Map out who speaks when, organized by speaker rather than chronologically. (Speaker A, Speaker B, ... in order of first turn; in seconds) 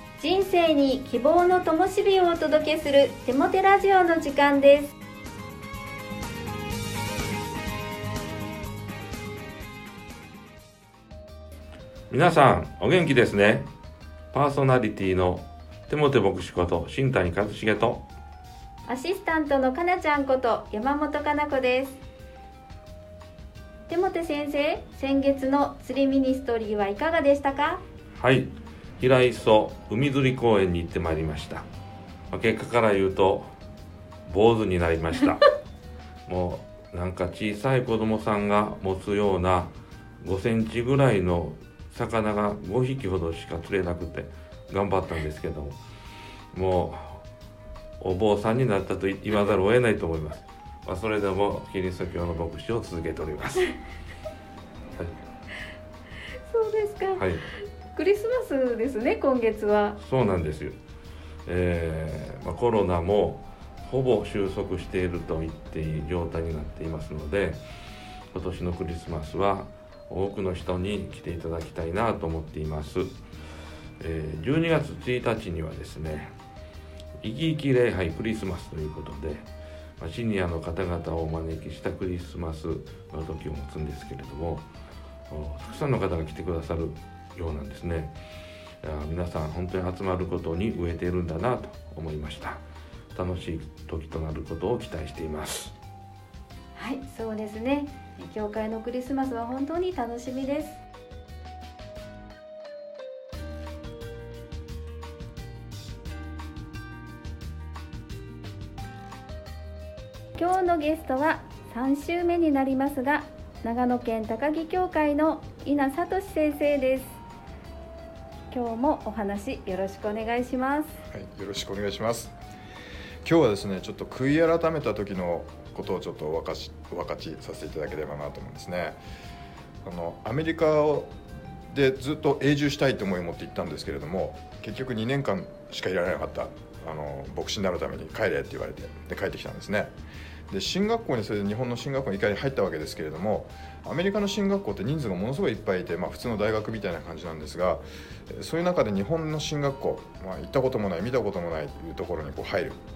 Speaker A: 0.2-5.0, 18.9-22.0, 23.9-27.8, 56.5-57.2, 57.9-60.0, 96.8-100.8, 110.4-117.2, 118.5-121.0
Speaker B: 12.1-13.7, 14.3-18.1, 28.1-31.7, 32.3-33.5, 34.3-35.5, 36.3-45.8, 46.5-47.2, 48.0-53.8, 57.2-57.4, 60.0-60.8, 61.5-67.6, 68.3-73.2, 74.0-76.3, 77.2-79.5, 80.0-84.7, 85.3-88.2, 88.8-92.6, 93.1-95.7
Speaker C: 121.1-122.3, 123.2-129.0, 129.8-131.2, 131.7-139.9, 140.5-152.8